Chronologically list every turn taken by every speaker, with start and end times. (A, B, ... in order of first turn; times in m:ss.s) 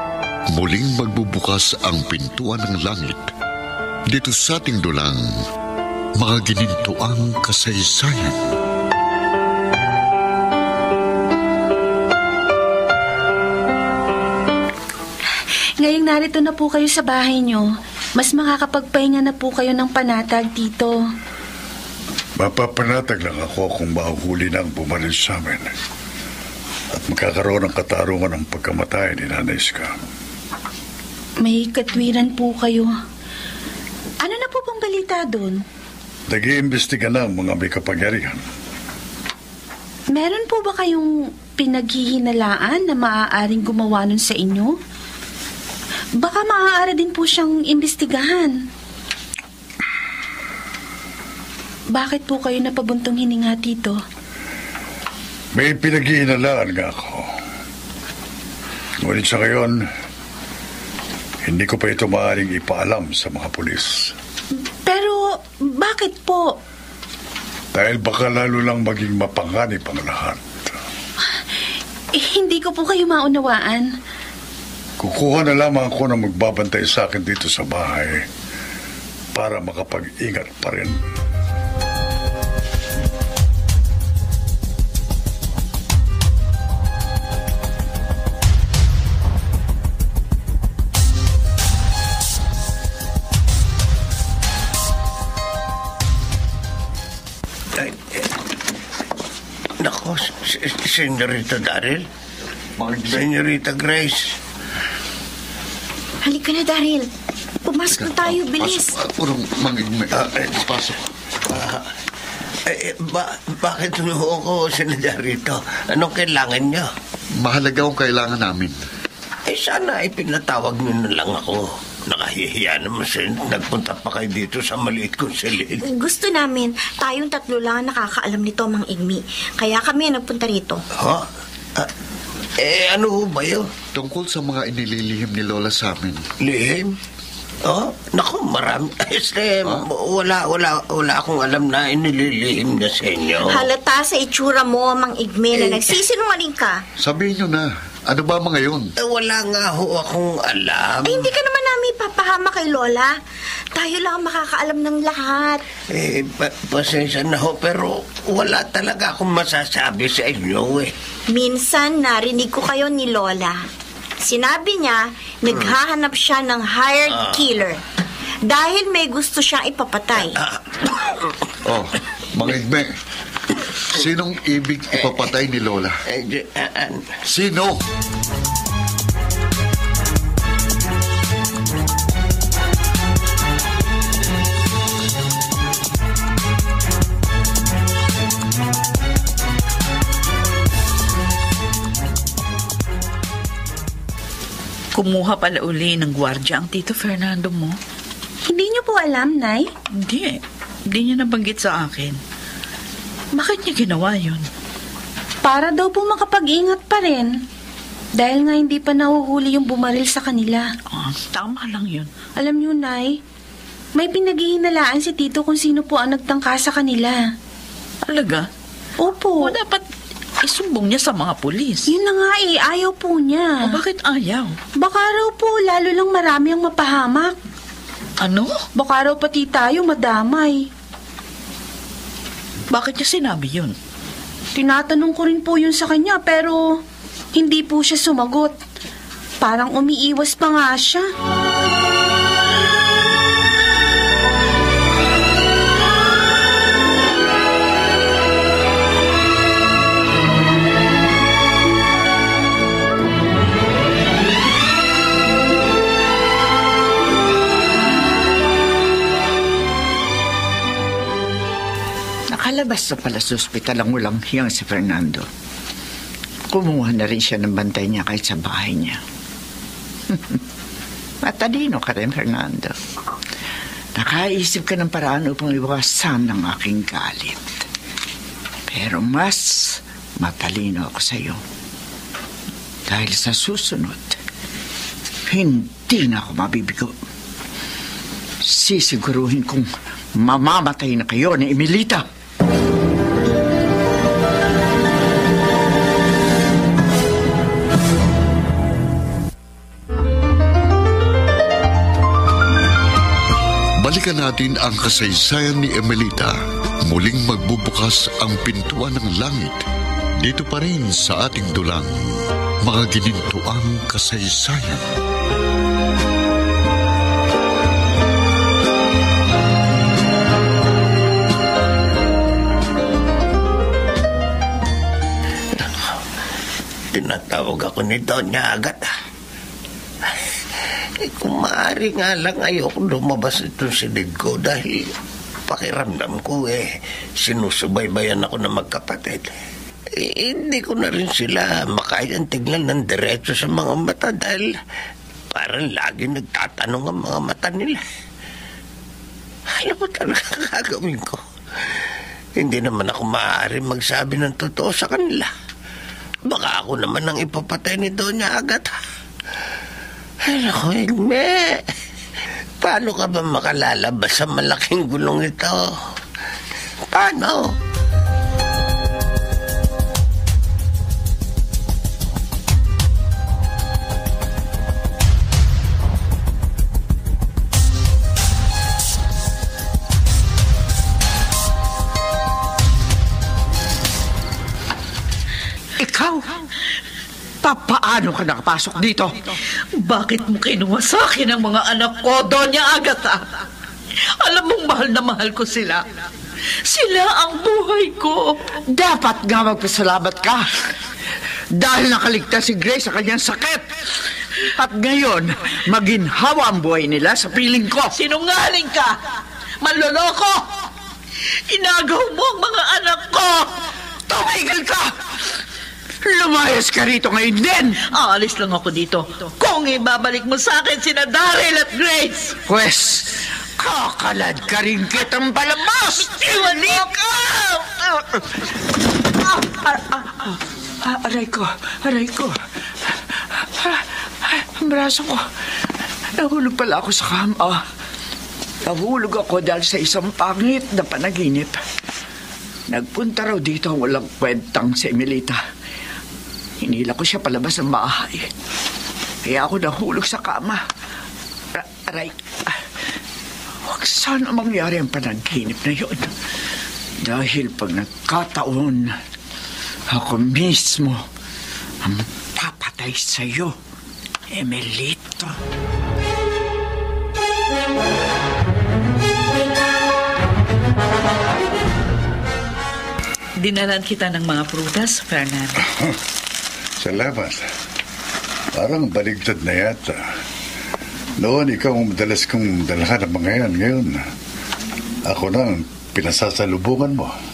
0:00.5-0:03.3 A
0:04.1-0:05.2 A
0:06.2-0:08.4 A
0:15.8-0:21.0 B
0:22.4-0:25.7 C
0:26.9-0:29.9 C
0:31.4-0:32.9 B
0:34.2-0:35.6 B
0:36.3-0:38.4 C
0:40.1-0:44.7 B
0:46.2-0:48.6 B
0:51.9-0:54.0 B
0:55.5-0:57.2 C
0:59.0-0:59.8 C
1:01.4-1:04.1 C
1:04.8-1:06.6 B
1:07.7-1:10.7 C
1:12.1-1:13.9 B
1:15.0-1:18.2 C
1:19.3-1:21.0 C
1:37.8-1:38.2 D
1:39.8-1:42.0 D
1:42.8-1:43.3 A
1:43.0-1:44.3 D
1:46.2-1:47.1 E
1:47.6-1:48.9 E
1:47.9-1:50.9 A
1:50.2-1:50.5 D
1:51.5-1:51.8 D
1:52.7-1:56.9 D
1:57.4-1:58.7 A
1:59.5-2:05.8 D
2:05.8-2:10.8 E
2:12.6-2:13.6 D
2:13.9-2:16.2 A
2:16.4-2:16.9 D
2:17.6-2:23.6 D
2:23.3-2:26.8 E
2:25.5-2:26.0 D
2:27.0-2:28.9 A
2:29.0-2:31.3 D
2:31.0-2:33.1 E
2:33.7-2:35.6 E
2:35.9-2:40.9 D
2:41.3-2:43.6 E
2:44.2-2:47.8 E
2:48.4-2:50.4 E
2:50.3-2:51.0 D
2:51.6-2:52.9 A
2:53.9-2:56.0 A
2:56.1-2:57.1 D
2:57.3-2:57.8 A
3:14.9-3:17.8 F
3:18.5-3:19.7 B
3:20.0-3:22.2 F
3:23.3-3:24.4 F
3:25.4-3:27.4 B
3:28.2-3:30.6 B
3:30.9-3:32.1 F
3:32.4-3:33.2 B
3:34.0-3:37.2 B
3:38.0-3:38.5 F
3:39.0-3:39.6 B
3:39.4-3:39.8 F
3:40.4-3:41.9 F
3:41.9-3:43.8 B
3:43.6-3:44.6 F
3:44.8-3:47.3 B
3:48.2-3:48.5 F
3:48.7-3:50.7 B
3:52.7-3:53.7 F
3:54.5-3:56.8 B
3:57.3-3:58.6 B
3:59.4-4:01.0 B
4:22.3-4:25.3 G
4:26.5-4:29.0 G
4:30.1-4:30.4 G
4:31.2-4:32.7 G
4:34.0-4:37.6 G
4:38.7-4:41.4 G
4:42.9-4:44.2 G
4:45.3-4:47.0 G
4:48.4-4:52.0 G
5:03.8-5:09.6 A
5:10.2-5:11.9 A
5:12.6-5:14.8 A
5:25.6-5:25.9 D
5:26.9-5:28.8 D
5:31.0-5:34.9 D
5:35.5-5:39.4 D
5:40.0-5:44.6 D
5:45.3-5:47.8 D
5:49.5-5:51.2 D
5:52.4-5:55.3 D
5:56.3-5:58.7 D
6:00.3-6:01.6 D
6:02.6-6:05.7 D
6:06.9-6:07.5 D
6:25.8-6:26.5 G
6:27.4-6:29.3 G
6:29.8-6:33.2 F
6:34.2-6:35.8 F
6:36.6-6:38.5 F
6:38.7-6:40.7 G
6:41.5-6:47.9 G
6:47.9-6:49.0 F
6:49.6-6:50.4 F
6:51.5-6:53.6 F
6:54.1-6:54.9 G
6:56.0-6:57.8 G
6:57.8-7:02.4 F
7:02.5-7:12.3 G
7:06.4-7:06.8 F
7:12.9-7:15.2 G
7:16.2-7:17.6 G
7:18.6-7:21.6 G
7:22.7-7:25.4 G
7:26.6-7:28.3 G
7:29.2-7:30.6 G
7:31.5-7:32.6 G
7:33.6-7:36.1 G
7:37.0-7:38.9 G
7:39.9-7:41.0 G
7:41.8-7:43.5 G
7:44.3-7:45.4 G
7:53.4-7:55.7 F
7:56.8-7:57.4 C
7:58.6-8:00.0 C
8:01.2-8:04.0 C
8:05.0-8:07.1 C